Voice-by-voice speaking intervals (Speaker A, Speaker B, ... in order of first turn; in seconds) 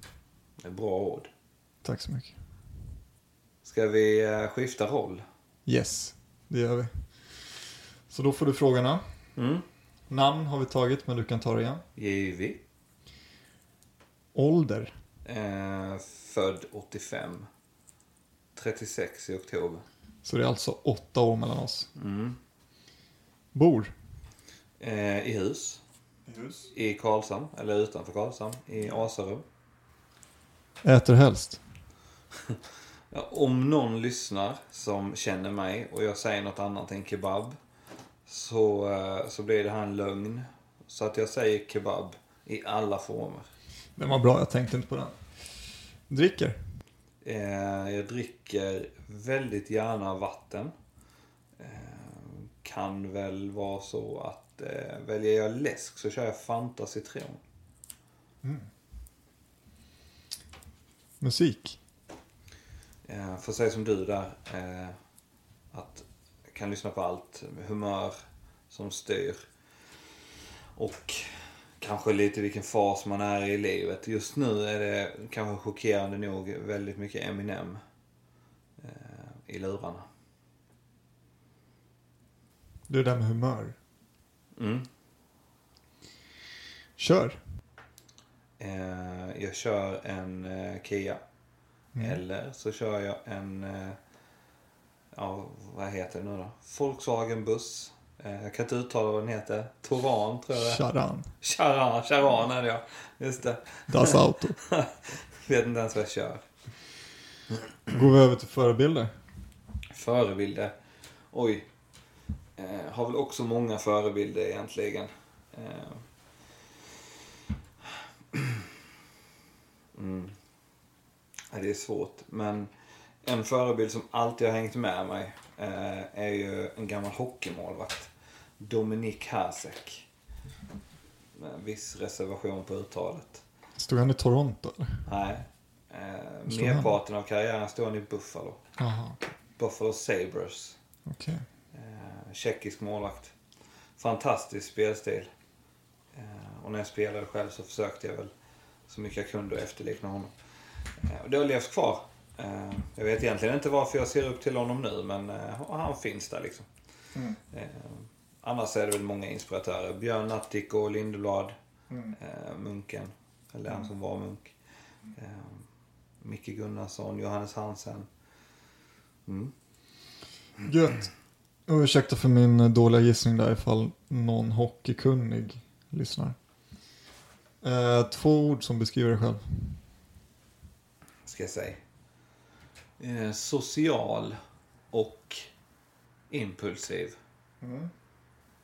Speaker A: 0.6-1.3, 3.6-5.2, 9.4-9.6, 11.9-12.6, 15.2-17.5, 18.6-19.8, 21.9-22.4, 24.8-25.8, 26.7-29.4, 33.1-37.6, 38.2-43.5, 47.2-50.7, 51.6-57.4, 63.0-64.9, 65.7-68.1, 68.7-69.4, 70.8-77.8, 78.8-80.0, 84.6-84.9, 88.6-91.2, 92.0-94.0, 95.1-100.8, 101.4-106.4, 109.9-110.7, 111.3-111.7, 112.6-116.0, 118.3-118.7, 119.9-120.3, 121.5-122.7, 123.2-130.1, 131.3-133.4, 135.1-138.6, 139.6-140.8, 141.7-143.3, 144.0-145.3, 146.1-148.3, 148.9-150.3, 151.0-156.7, 157.5-161.5, 162.1-164.5, 165.1-165.7, 166.2-168.1, 169.2-169.5, 181.2-181.8, 183.0-184.3, 184.9-185.5, 186.3-187.2
Speaker B: 1.8-2.4, 5.7-6.9, 8.1-9.0, 10.1-11.8, 14.3-14.9, 20.2-21.9, 23.5-23.9, 26.3-26.7, 30.8-31.6, 44.0-45.2, 46.1-46.6, 58.4-58.7, 61.2-61.8, 82.9-83.8, 87.0-87.4, 91.9-92.2, 100.5-101.3, 103.9-104.6, 107.9-109.1, 133.8-135.0, 136.5-137.0, 138.8-139.3, 141.1-141.4, 170.6-171.1, 171.7-176.3, 177.6-179.8, 187.6-187.9